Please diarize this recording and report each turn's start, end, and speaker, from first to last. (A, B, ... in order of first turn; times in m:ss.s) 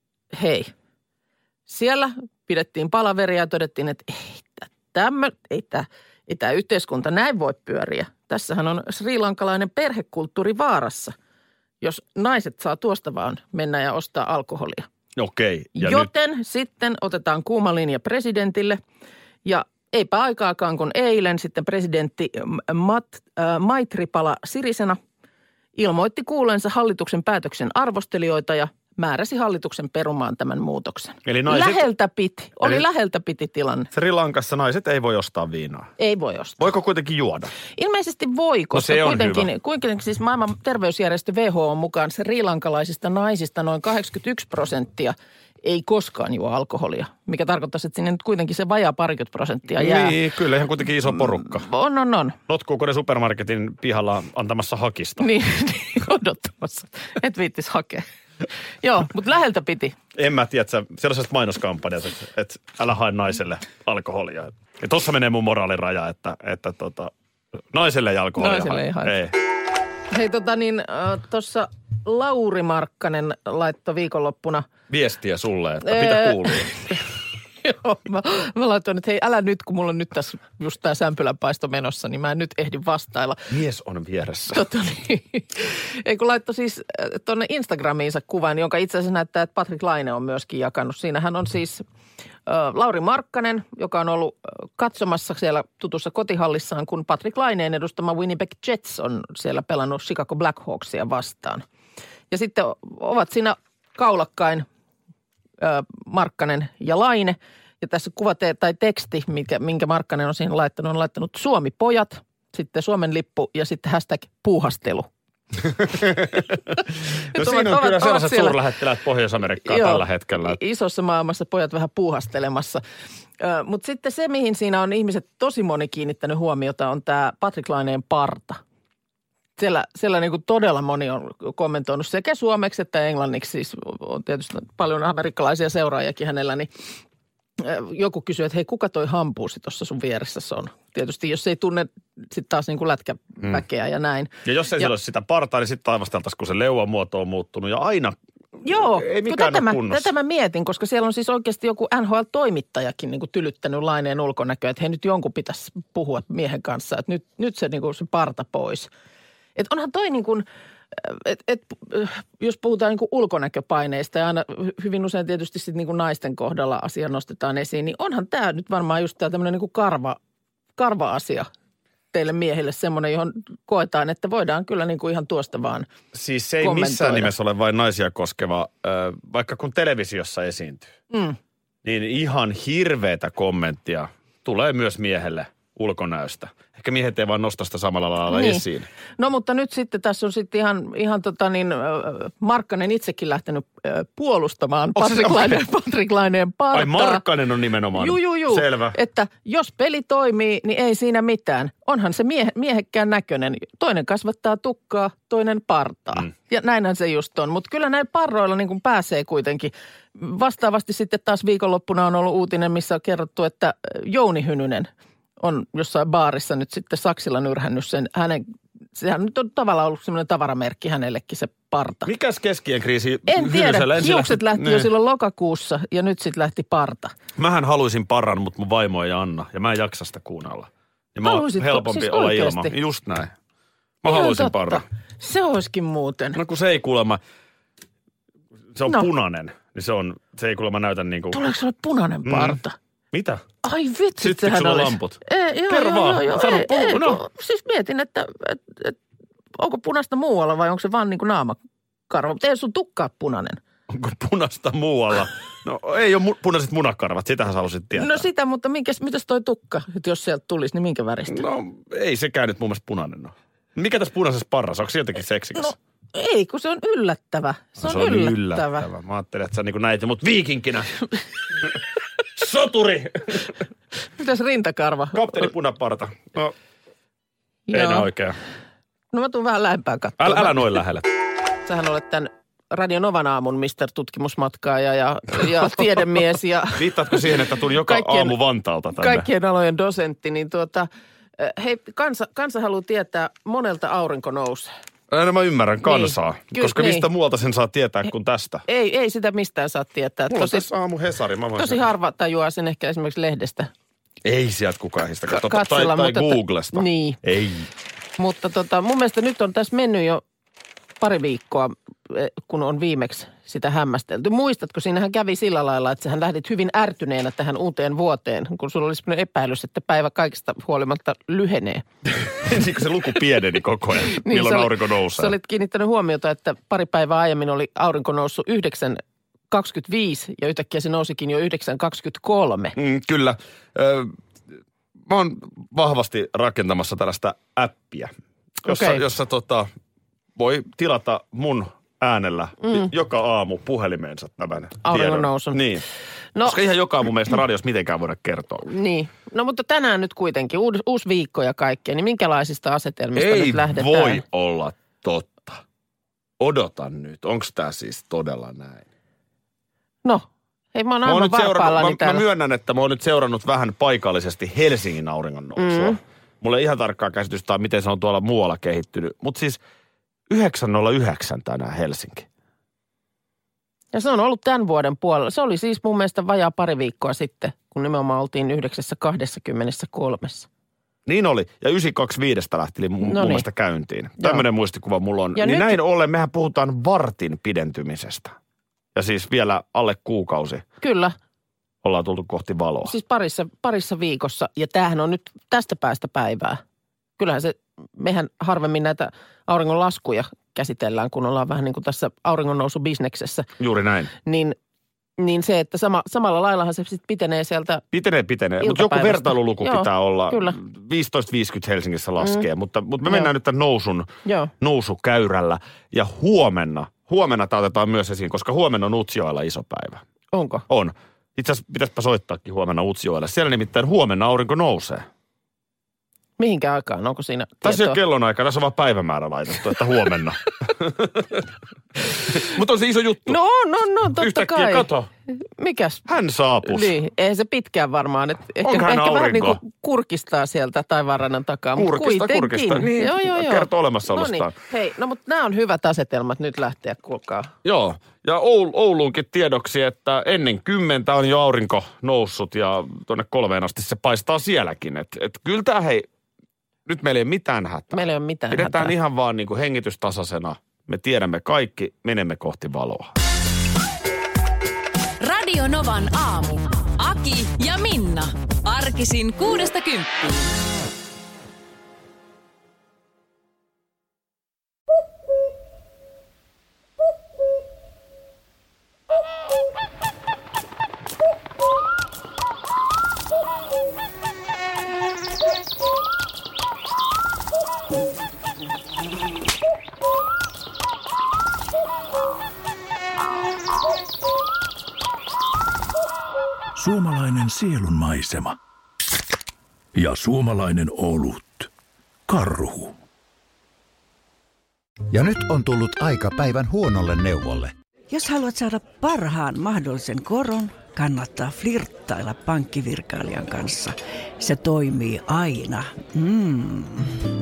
0:00.3-0:00.7 A
0:01.7-0:11.2 A
0:11.8-0:14.9 A
0:15.2-0:16.1 B
0:15.8-0:18.8 A
0:19.4-0:25.0 A
0:25.8-0:33.9 A
0:31.3-0:31.8 B
0:33.9-0:35.9 B
0:36.0-0:36.6 A
0:36.6-0:37.5 B
0:37.8-0:50.2 A
0:38.7-0:39.5 B
0:49.8-0:51.7 B
0:51.4-0:52.4 A
0:52.5-0:55.3 B
0:55.2-0:58.0 A
0:58.8-1:00.0 A
1:00.2-1:07.1 B
1:07.7-1:09.4 B
1:08.4-1:09.2 A
1:10.1-1:14.7 A
1:14.9-1:17.0 B
1:15.8-1:17.0 A
1:17.6-1:23.4 A
1:23.5-1:24.6 B
1:24.5-1:31.8 A
1:32.5-1:41.6 A
1:42.3-1:44.7 A
1:45.6-1:55.1 A
1:55.7-2:00.6 B
1:57.3-1:58.6 A
1:59.6-2:02.8 A
2:03.4-2:08.6 A
2:09.6-2:16.7 A
2:17.6-2:24.9 A
2:24.4-2:30.1 B
2:28.6-2:38.9 A
2:39.6-2:50.2 A
2:50.8-2:51.5 A
2:52.1-2:55.9 A
2:56.1-3:00.9 B
2:56.6-2:57.3 A
3:01.1-3:01.4 A
3:01.8-3:08.9 B
3:08.3-3:08.6 A
3:09.2-3:17.2 A
3:15.0-3:15.6 B
3:16.7-3:19.0 B
3:17.9-3:34.9 A
3:35.4-3:38.4 A
3:39.0-3:42.1 A
3:42.0-3:44.9 B
3:43.3-3:47.1 A
3:47.4-3:53.3 B
3:51.2-3:52.8 A
3:54.0-3:54.8 B
3:54.0-3:56.4 A
3:56.3-3:57.2 B
3:58.7-4:01.4 B
4:01.3-4:02.8 A
4:02.2-4:02.6 B
4:03.1-4:03.4 B
4:03.6-4:09.0 A
4:04.2-4:07.2 B
4:09.6-4:11.6 A
4:12.1-4:13.6 A
4:13.9-4:18.3 B
4:17.9-4:21.5 A
4:21.3-4:25.8 B
4:25.6-4:28.9 A
4:27.8-4:30.9 B
4:32.4-4:33.5 B
4:34.2-4:35.5 A
4:35.1-4:36.6 B
4:37.7-4:38.1 A
4:37.7-4:38.4 B
4:39.1-4:40.6 A
4:40.2-4:41.1 B
4:41.6-4:47.1 A
4:46.7-4:49.3 B
4:47.8-4:48.4 A
4:48.9-4:54.7 A
4:55.1-4:58.6 B
4:55.8-4:57.1 A
4:58.7-5:00.7 A
5:00.3-5:01.9 B
5:01.6-5:03.7 A
5:04.2-5:07.7 B
5:05.3-5:07.2 A
5:08.2-5:10.2 A
5:11.0-5:21.8 A
5:22.3-5:25.3 B
5:24.1-5:32.8 A
5:32.8-5:34.2 B
5:35.1-5:38.1 B
5:38.6-5:39.7 B
5:38.7-5:39.0 A
5:40.4-5:45.9 B
5:44.8-5:45.6 A
5:46.4-5:48.7 B
5:48.6-5:54.2 A
5:53.2-5:55.6 B
5:56.4-5:58.9 B
6:00.0-6:02.2 A
6:01.0-6:09.6 B
6:05.6-6:06.0 A
6:10.3-6:12.3 B
6:13.9-6:20.5 A
6:21.1-6:28.4 B
6:23.0-6:23.5 A
6:24.2-6:24.4 A
6:25.4-6:25.8 A
6:29.0-6:30.6 B
6:30.8-6:31.2 A
6:31.8-6:32.9 B
6:32.8-6:36.6 A
6:37.2-6:43.5 A
6:43.6-6:44.1 B
6:44.2-6:44.6 A
6:45.2-6:47.8 A
6:47.9-7:00.0 B
6:48.6-6:50.6 A
6:53.0-6:53.3 A
6:54.2-6:54.5 A
7:00.3-7:00.6 A
7:00.7-7:05.1 B
7:06.4-7:08.0 A
7:07.6-7:11.4 B
7:12.1-7:13.4 B
7:13.3-7:16.0 A
7:14.2-7:15.1 B
7:16.1-7:17.0 B
7:16.6-7:27.5 A
7:18.6-7:19.6 B
7:21.8-7:24.5 B
7:27.6-7:36.1 B
7:36.9-7:43.1 B
7:37.9-7:38.9 A
7:45.2-7:50.5 C
8:16.8-8:18.6 D
8:20.0-8:21.7 D
8:22.3-8:23.0 D
8:25.1-8:27.7 E
8:28.1-8:37.2 F